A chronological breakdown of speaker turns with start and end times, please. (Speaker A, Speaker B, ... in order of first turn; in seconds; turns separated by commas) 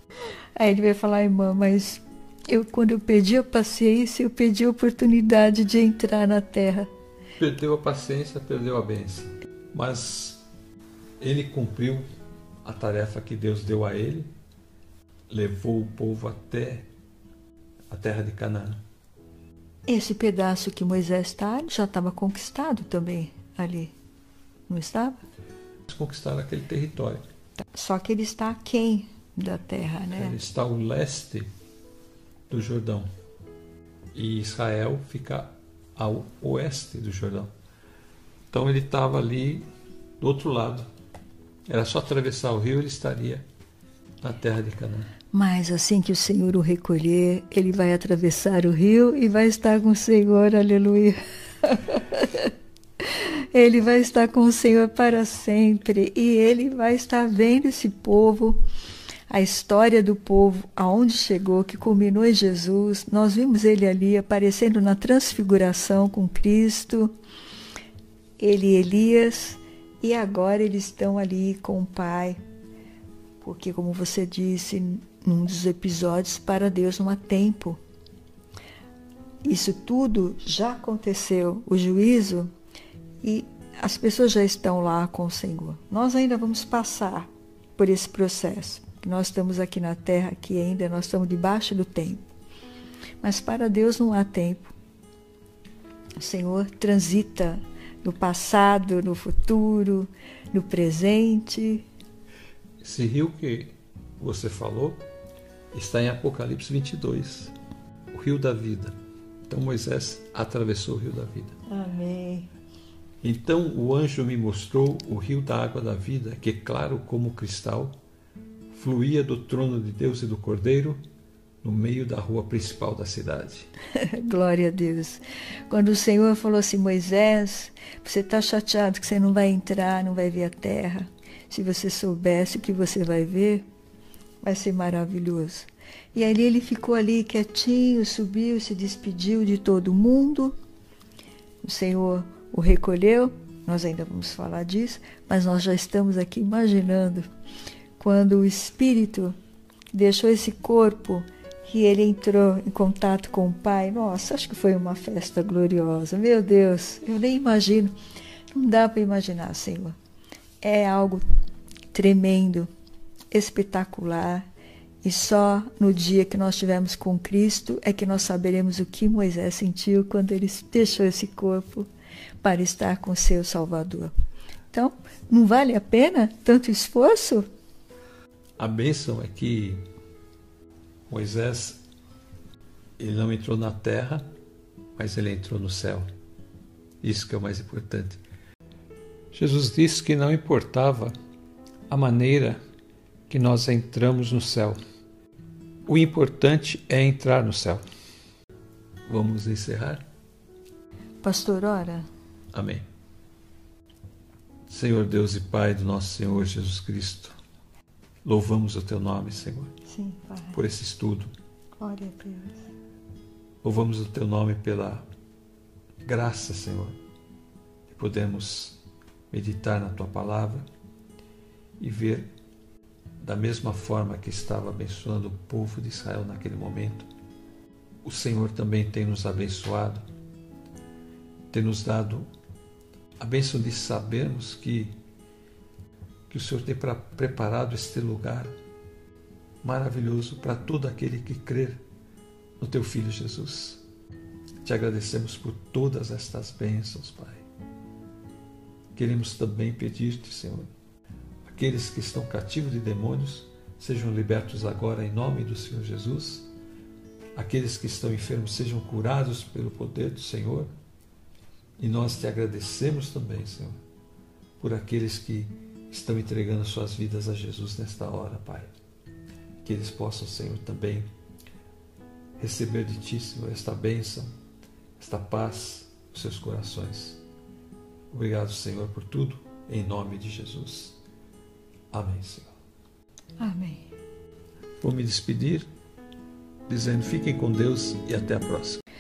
Speaker A: 0.6-6.9, Speaker B: 7.4-10.4, Speaker B: 11.2-12.1, Speaker B: 12.6-14.3, Speaker B: 15.3-16.9, Speaker B: 17.9-18.8, Speaker A: 19.9-23.9, Speaker A: 24.7-25.2, Speaker B: 25.9-27.2, Speaker A: 27.7-30.4, Speaker B: 30.2-31.5, Speaker B: 32.5-33.1, Speaker B: 34.1-37.5, Speaker B: 38.5-39.6, Speaker B: 40.2-40.8, Speaker B: 41.7-43.4, Speaker B: 44.2-45.1, Speaker A: 45.3-58.6, Speaker A: 59.3-67.1, Speaker A: 68.4-72.4, Speaker A: 73.4-77.8, Speaker A: 79.4-82.5, Speaker A: 83.2-92.2, Speaker A: 93.2-94.7, Speaker A: 96.2-101.8, Speaker B: 102.8-105.0, Speaker B: 105.7-107.5, Speaker B: 108.1-109.0, Speaker B: 109.5-111.6, Speaker A: 111.7-112.5, Speaker B: 113.2-117.9, Speaker B: 118.7-121.0, Speaker B: 121.6-123.7, Speaker A: 124.0-133.7, Speaker A: 134.4-140.6, Speaker A: 141.6-147.3, Speaker A: 148.0-149.3, Speaker A: 149.9-157.9, Speaker A: 158.5-160.0, Speaker A: 160.6-161.2, Speaker A: 161.9-162.7, Speaker A: 163.3-164.5, Speaker A: 165.0-171.9, Speaker A: 172.4-174.1, Speaker A: 174.7-177.5, Speaker B: 178.6-179.8, Speaker B: 181.1-181.8, Speaker B: 183.0-184.2, Speaker B: 185.0-186.1, Speaker B: 187.0-188.2, Speaker B: 189.3-191.1, Speaker B: 191.9-192.6, Speaker B: 193.3-194.8, Speaker B: 195.9-197.8, Speaker B: 199.1-200.0, Speaker A: 201.2-202.1, Speaker B: 202.5-202.8, Speaker B: 204.7-207.4, Speaker B: 208.2-209.7, Speaker A: 209.9-210.6, Speaker B: 210.5-211.3, Speaker A: 211.8-212.6, Speaker B: 213.6-215.1, Speaker B: 216.1-217.0, Speaker B: 217.9-218.8, Speaker B: 219.3-220.7, Speaker B: 221.8-222.3, Speaker B: 223.2-227.1, Speaker B: 228.0-230.0, Speaker B: 231.5-232.3, Speaker B: 233.2-234.9, Speaker B: 236.3-238.5, Speaker B: 239.6-241.8, Speaker B: 242.6-243.8, Speaker B: 244.6-247.4, Speaker B: 249.0-250.7, Speaker B: 251.4-256.5, Speaker B: 257.4-260.7, Speaker B: 261.8-263.8, Speaker B: 264.6-268.7, Speaker B: 269.6-271.1, Speaker B: 272.4-274.3, Speaker B: 275.0-277.2, Speaker B: 278.1-281.0, Speaker B: 281.9-282.5, Speaker A: 283.4-283.9, Speaker B: 284.8-285.7, Speaker B: 286.7-288.8